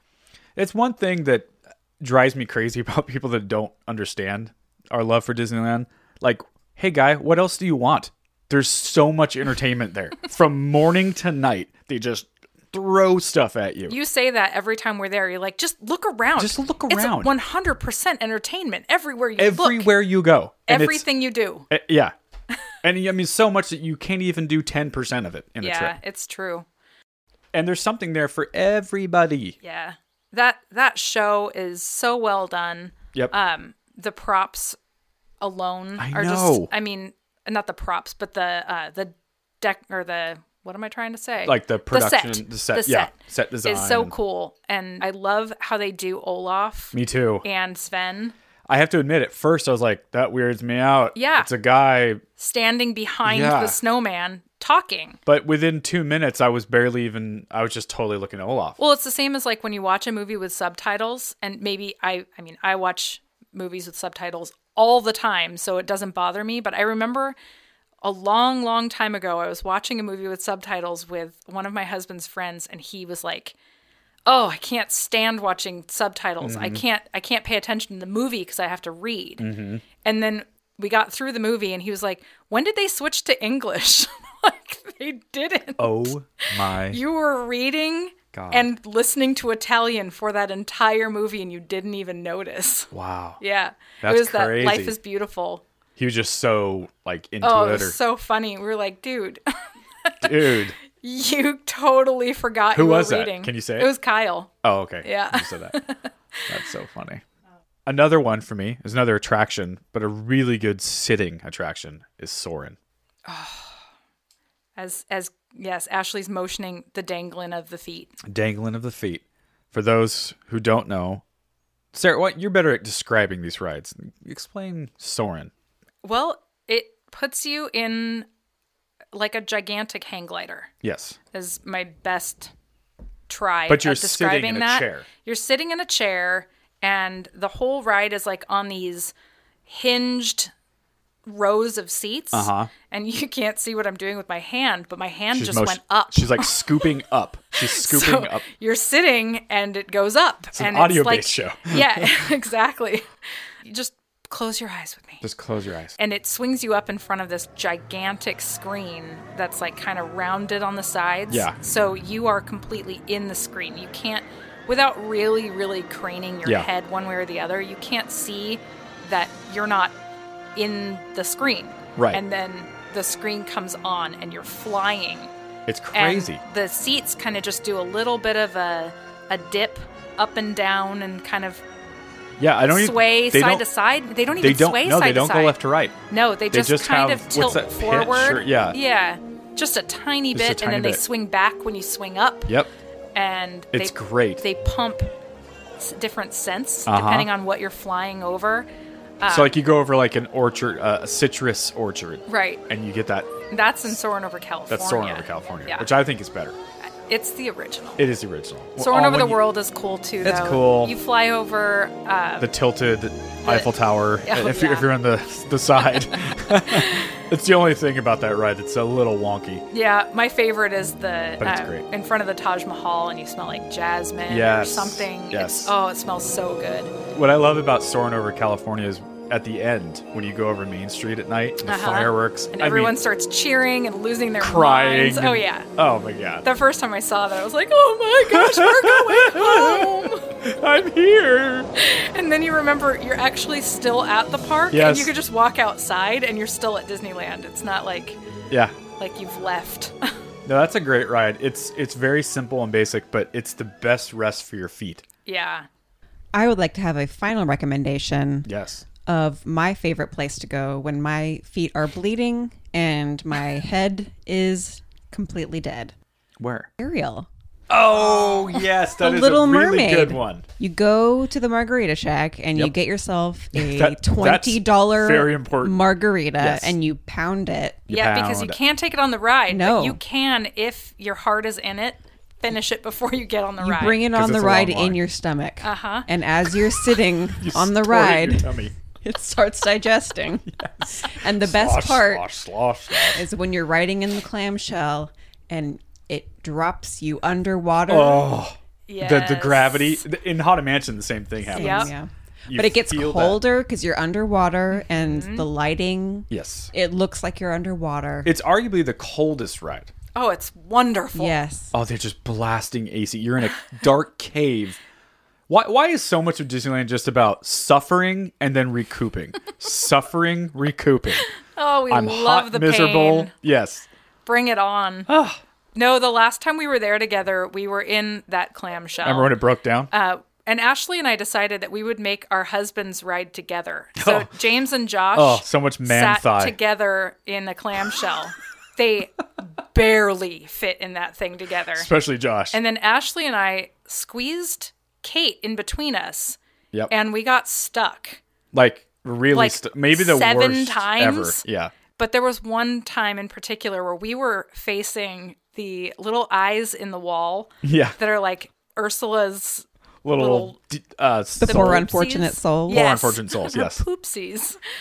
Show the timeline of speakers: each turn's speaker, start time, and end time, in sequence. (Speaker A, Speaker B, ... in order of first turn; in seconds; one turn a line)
Speaker A: 0.6-13.9
Speaker B: 13.9-19.9
Speaker A: 16.4-17.3
Speaker A: 19.4-21.1
Speaker B: 20.7-21.7
Speaker A: 21.7-22.1
Speaker A: 22.8-25.9
Speaker B: 25.6-26.6
Speaker A: 27.5-29.6
Speaker B: 29.6-34.8
Speaker B: 35.4-48.3
Speaker A: 36.0-36.7
Speaker A: 41.4-44.1
Speaker A: 46.9-47.4
Speaker A: 48.7-52.2
Speaker B: 51.1-51.5
Speaker B: 52.4-55.2
Speaker A: 53.2-53.8
Speaker A: 55.2-58.8
Speaker B: 58.8-67.3
Speaker B: 68.0-73.5
Speaker B: 74.2-79.5
Speaker A: 76.4-76.8
Speaker A: 79.4-79.8
Speaker B: 80.0-86.1
Speaker A: 85.8-87.0
Speaker B: 86.9-95.6
Speaker A: 88.3-88.7
Speaker A: 92.9-93.4
Speaker A: 94.0-95.0
Speaker A: 96.0-98.0
Speaker B: 97.4-99.4
Speaker B: 100.0-104.5
Speaker A: 100.2-100.8
Speaker A: 102.7-103.9
Speaker A: 104.6-105.8
Speaker B: 105.0-106.5
Speaker A: 106.5-107.2
Speaker A: 107.8-112.8
Speaker B: 113.3-113.8
Speaker B: 114.8-118.2
Speaker A: 118.2-121.2
Speaker A: 121.9-125.5
Speaker B: 126.0-128.2
Speaker B: 129.1-130.7
Speaker A: 130.8-131.2
Speaker B: 131.3-132.5
Speaker B: 133.3-139.1
Speaker A: 133.7-135.1
Speaker B: 139.7-140.5
Speaker B: 141.2-146.9
Speaker A: 142.3-142.7
Speaker A: 145.3-148.4
Speaker B: 147.5-153.1
Speaker A: 150.5-152.2
Speaker B: 153.6-155.2
Speaker A: 155.2-156.0
Speaker B: 156.0-169.9
Speaker A: 161.3-161.6
Speaker B: 170.6-175.3
Speaker A: 171.9-172.2
Speaker A: 175.7-176.4
Speaker B: 175.9-181.6
Speaker A: 182.4-183.6
Speaker B: 182.7-185.6
Speaker A: 184.4-185.9
Speaker B: 186.1-192.6
Speaker A: 186.5-188.8
Speaker A: 190.3-191.0
Speaker B: 193.1-195.1
Speaker A: 193.7-194.4
Speaker B: 195.8-198.7
Speaker A: 196.9-197.3
Speaker B: 199.2-199.5
Speaker A: 199.2-203.9
Speaker B: 202.3-202.6
Speaker B: 203.5-205.9
Speaker A: 204.7-206.6
Speaker B: 207.1-208.0
Speaker A: 208.0-209.4
Speaker B: 208.8-212.5
Speaker A: 210.2-210.9
Speaker A: 212.4-219.6
Speaker B: 214.2-214.9
Speaker B: 216.3-217.2
Speaker B: 219.7-226.9
Speaker A: 221.4-221.8
Speaker A: 224.3-225.7
Speaker A: 227.1-233.0
Speaker B: 231.6-235.7
Speaker A: 234.4-236.4
Speaker B: 236.4-240.3
Speaker A: 238.2-241.7
Speaker B: 241.7-248.2
Speaker A: 244.7-245.1
Speaker A: 248.5-248.8
Speaker B: 249.0-250.1
Speaker A: 250.4-255.0
Speaker B: 255.2-255.7
Speaker C: 256.3-258.5
Speaker A: 258.4-258.8
Speaker C: 259.1-265.9
Speaker A: 266.4-266.7
Speaker C: 266.8-267.3
Speaker A: 267.7-270.4
Speaker C: 268.3-277.9
Speaker A: 273.5-275.8
Speaker A: 276.4-276.8
Speaker A: 277.9-278.6
Speaker B: 277.9-284.0
Speaker C: 279.5-280.0
Speaker C: 283.6-292.3
Speaker A: 284.1-285.0
Speaker B: 285.6-286.1
Speaker A: 287.4-288.7
Speaker A: 290.5-293.2
Speaker C: 293.0-298.3
Speaker A: 297.9-301.9
Speaker B: 298.9-300.0
Speaker C: 301.4-308.3
Speaker B: 301.6-301.9
Speaker A: 302.5-303.4
Speaker B: 304.8-305.5
Speaker A: 306.3-306.7
Speaker A: 308.2-309.9
Speaker B: 310.1-311.3
Speaker C: 311.1-311.7
Speaker A: 311.7-314.8
Speaker A: 315.5-321.2
Speaker B: 321.4-323.3
Speaker A: 321.9-323.9
Speaker B: 324.2-325.1
Speaker A: 325.1-325.4
Speaker B: 325.7-329.3
Speaker A: 329.0-329.9
Speaker B: 329.9-341.9
Speaker A: 333.9-334.3
Speaker A: 335.1-336.6
Speaker A: 341.7-342.6
Speaker B: 342.5-346.4
Speaker B: 346.9-348.2
Speaker A: 348.5-351.7
Speaker B: 349.3-351.4
Speaker B: 351.9-360.6
Speaker A: 357.6-358.0
Speaker A: 360.0-361.9
Speaker C: 361.4-362.9
Speaker B: 361.4-364.6
Speaker A: 362.7-363.8